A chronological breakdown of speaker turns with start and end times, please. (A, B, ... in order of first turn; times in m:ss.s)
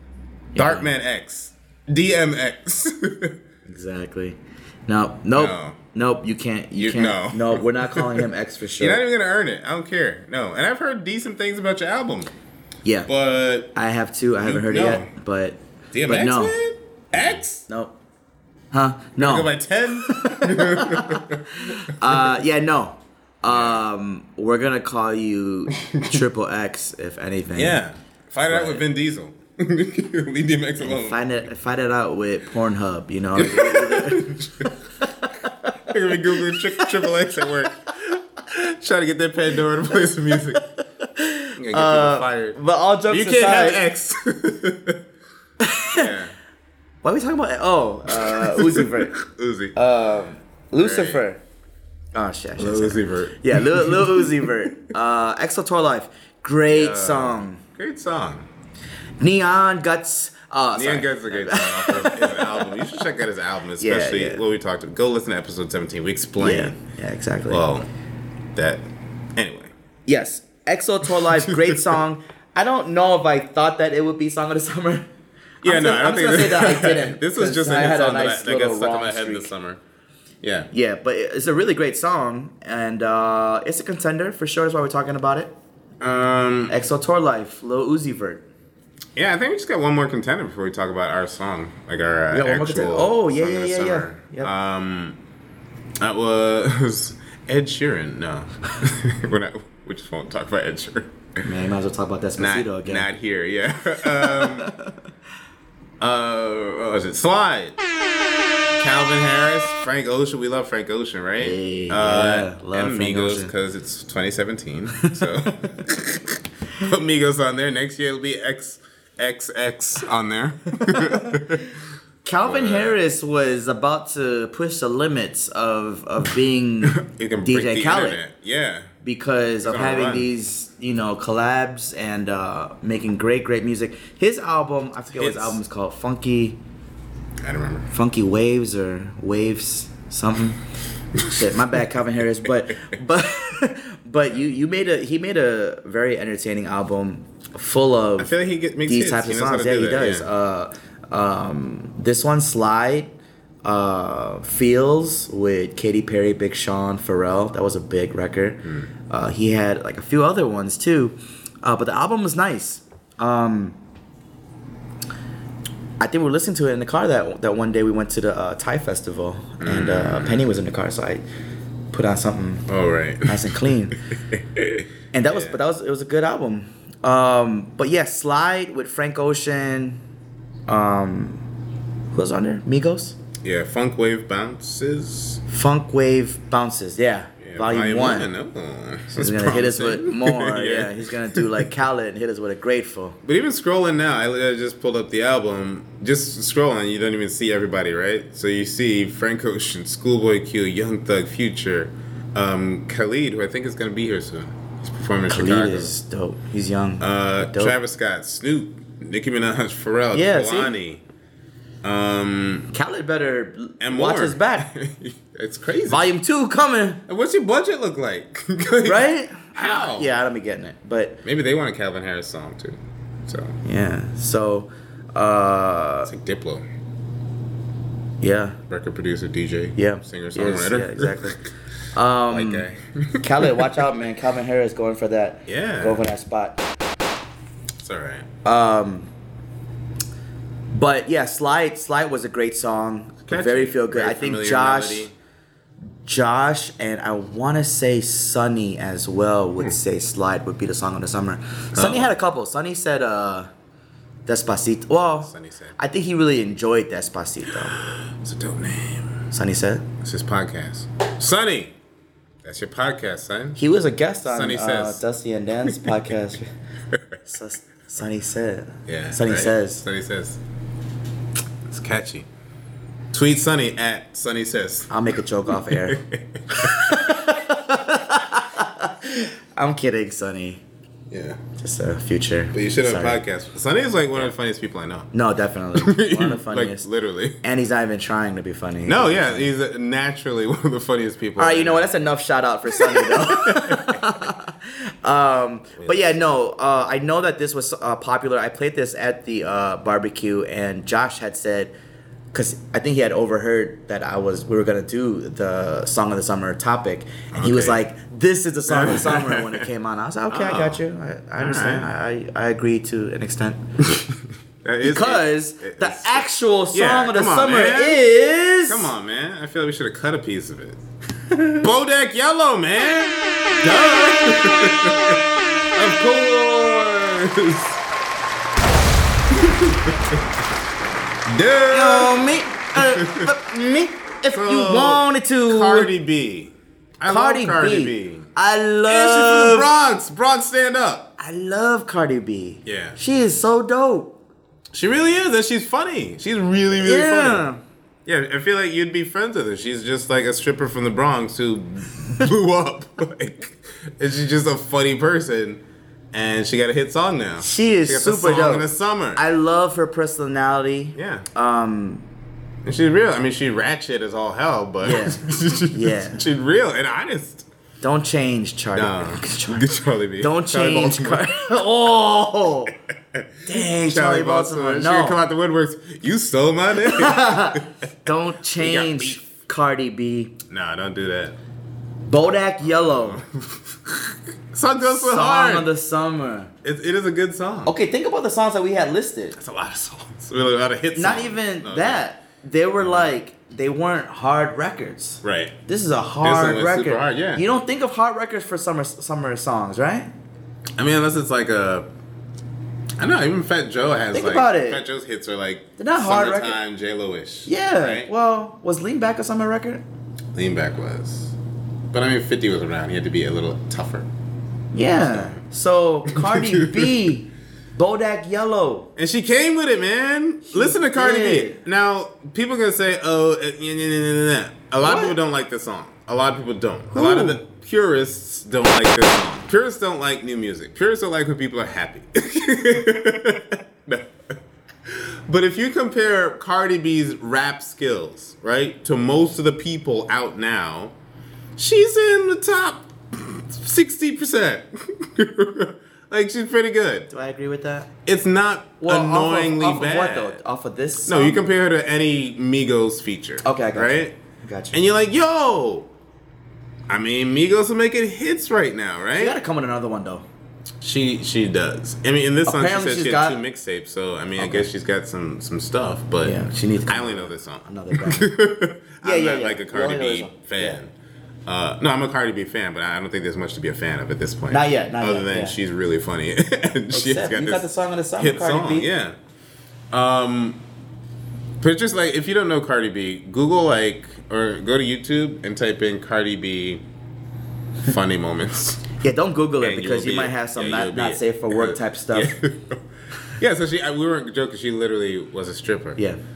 0:00.5-0:00.9 A
0:00.6-0:03.4 B
0:03.6-0:09.0 A
0:05.3-0:05.8 B
0:06.8-0:08.3 B
0:08.8-0:12.3 B
0:13.1-0:13.7 B
0:13.7-0:16.5 A
0:14.4-0:15.1 B
0:15.9-0:17.6 B
0:17.6-0:17.9 A
0:18.7-0:27.8 A
0:19.2-0:22.2 B
0:23.5-0:23.8 B
0:25.8-0:26.2 B
0:27.5-0:31.2 B
0:28.5-0:28.8 A
0:30.8-0:37.5 A
0:33.3-0:34.7 B
0:35.9-0:40.6 B
0:40.5-0:43.8 A
0:41.6-0:42.6 B
0:43.1-0:45.0 B
0:45.6-0:46.1 A
0:45.9-0:46.3 B
0:47.0-0:49.2 A
0:48.1-0:49.7 B
0:49.7-0:51.4 A
0:50.8-0:51.2 B
0:52.1-0:57.6 A
0:52.6-0:54.5 B
0:56.7-0:58.5 B
0:59.2-1:02.7 A
1:00.7-1:06.8 B
1:03.8-1:04.4 A
1:06.4-1:07.6 A
1:07.5-1:07.9 B
1:08.5-1:09.7 B
1:10.1-1:15.1 A
1:11.2-1:11.7 B
1:15.6-1:19.5 A
1:15.6-1:19.8 B
1:20.4-1:20.7 B
1:20.7-1:25.5 A
1:26.0-1:26.7 B
1:26.7-1:28.4 A
1:29.2-1:35.2 B
1:32.3-1:34.5 A
1:36.0-1:41.4 B
1:41.4-1:43.1 A
1:42.4-1:44.7 B
1:44.1-1:44.9 A
1:46.0-1:47.8 B
1:48.8-2:01.8 B
1:51.4-1:53.5 A
2:02.2-2:08.2 A
2:02.4-2:03.0 B
2:06.8-2:08.9 B
2:09.0-2:16.6 A
2:09.6-2:10.3 B
2:15.2-2:15.6 B
2:17.4-2:17.9 B
2:17.9-2:20.6 A
2:21.2-2:21.4 B
2:21.2-2:28.3 A
2:28.2-2:30.3 B
2:28.8-2:33.1 A
2:33.6-2:43.8 A
2:46.0-2:51.2 A
2:49.6-2:50.5 B
2:51.9-2:52.6 A
2:52.7-2:55.6 B
2:53.2-2:54.0 A
2:55.1-3:00.0 A
3:00.7-3:01.4 A
3:02.1-3:03.2 A
3:03.4-3:05.4 B
3:05.5-3:08.3 A
3:07.4-3:11.6 B
3:09.1-3:13.2 A
3:13.2-3:25.9 B
3:25.3-3:27.8 A
3:27.0-3:31.0 B
3:30.1-3:30.7 A
3:31.8-3:32.7 B
3:32.7-3:34.7 A
3:33.8-3:36.1 B
3:35.9-3:37.0 A
3:37.1-3:40.1 B
3:38.8-3:41.2 A
3:41.2-3:43.6 B
3:43.6-3:46.1 A
3:46.0-3:46.6 B
3:48.2-3:48.6 A
3:48.7-3:51.4 B
3:49.8-3:51.4 A
3:51.9-3:52.7 A
3:52.3-3:53.9 B
3:53.2-3:56.6 A
3:55.5-3:56.0 B
3:57.8-3:58.3 B
3:58.4-3:59.1 A
4:00.7-4:05.1 A
4:03.3-4:05.1 B
4:06.0-4:13.5 A
4:11.7-4:12.1 B
4:14.2-4:17.8 A
4:15.2-4:15.8 B
4:17.8-4:19.2 B
4:19.3-4:19.8 A
4:20.0-4:21.7 B
4:22.4-4:23.6 B
4:23.6-4:26.5 A
4:24.2-4:25.0 B
4:25.7-4:26.0 B
4:27.2-4:29.8 A
4:28.9-4:30.4 B
4:31.6-4:32.3 B
4:33.1-4:34.9 B
4:34.9-4:40.6 A
4:35.5-4:37.2 B
4:41.1-4:41.4 B
4:41.6-4:43.2 A
4:42.5-4:45.1 B
4:45.1-4:46.8 A
4:45.7-4:47.4 B
4:47.4-4:49.5 A
4:48.8-4:51.9 B
4:51.4-5:01.7 A
4:52.7-4:54.2 B
4:55.8-4:56.2 B
5:02.3-5:13.6 A
5:07.3-5:07.8 B
5:08.7-5:09.7 B
5:10.3-5:10.8 B
5:11.4-5:11.9 B
5:13.8-5:18.0 B
5:14.8-5:18.9 A
5:18.6-5:20.8 B
5:21.6-5:25.2 B
5:25.7-5:27.8 B
5:29.3-5:30.2 B
5:31.2-5:33.3 B
5:31.7-5:35.9 A
5:34.3-5:38.3 B
5:37.1-5:39.7 A
5:38.9-5:41.1 B
5:41.2-5:44.1 A
5:42.6-5:43.0 B
5:44.7-5:47.5 B
5:46.8-5:47.6 A
5:48.0-5:55.6 B
5:56.1-5:59.2 B
5:57.4-6:02.0 A
6:00.9-6:01.3 B
6:02.6-6:07.5 B
6:04.8-6:06.2 A
6:07.8-6:09.7 A
6:08.7-6:11.4 B
6:10.2-6:12.7 A
6:12.9-6:17.6 B
6:13.4-6:15.2 A
6:16.8-6:20.3 A
6:18.6-6:19.2 B
6:20.5-6:21.4 B
6:22.0-6:23.2 A
6:22.6-6:25.7 B
6:24.8-6:26.5 A
6:26.6-6:27.7 B
6:27.6-6:29.4 A
6:29.4-6:32.0 B
6:30.9-6:40.1 A
6:32.8-6:33.1 B
6:35.2-6:35.6 B
6:36.2-6:37.4 B
6:40.8-6:41.9 B
6:43.0-6:48.1 B
6:44.1-6:44.8 A
6:45.8-6:46.6 A
6:47.4-6:49.8 A
6:50.3-6:51.3 B
6:51.9-6:54.1 B
6:54.7-6:58.9 A
6:55.0-6:55.4 B
6:56.1-6:56.9 B
6:59.0-7:14.3 B
7:00.5-7:01.6 A
7:04.8-7:05.2 A
7:06.9-7:07.4 A
7:14.8-7:20.9 B
7:21.6-7:27.1 B
7:27.1-7:27.9 A
7:28.0-7:30.4 B
7:28.8-7:31.4 A
7:31.0-7:34.1 B
7:33.4-7:34.8 A
7:34.7-7:35.9 B
7:36.9-7:39.4 B
7:39.2-7:40.2 A
7:40.8-7:50.9 B
7:42.4-7:43.4 A
7:44.4-7:44.7 A
7:46.2-7:48.3 A
7:49.0-7:50.8 A
7:51.4-7:59.2 B
7:54.5-7:55.6 A
7:56.9-7:58.9 A
7:59.9-8:00.6 B
8:01.6-8:06.8 B
8:07.8-8:08.9 B
8:09.0-8:12.3 A
8:09.6-8:16.0 B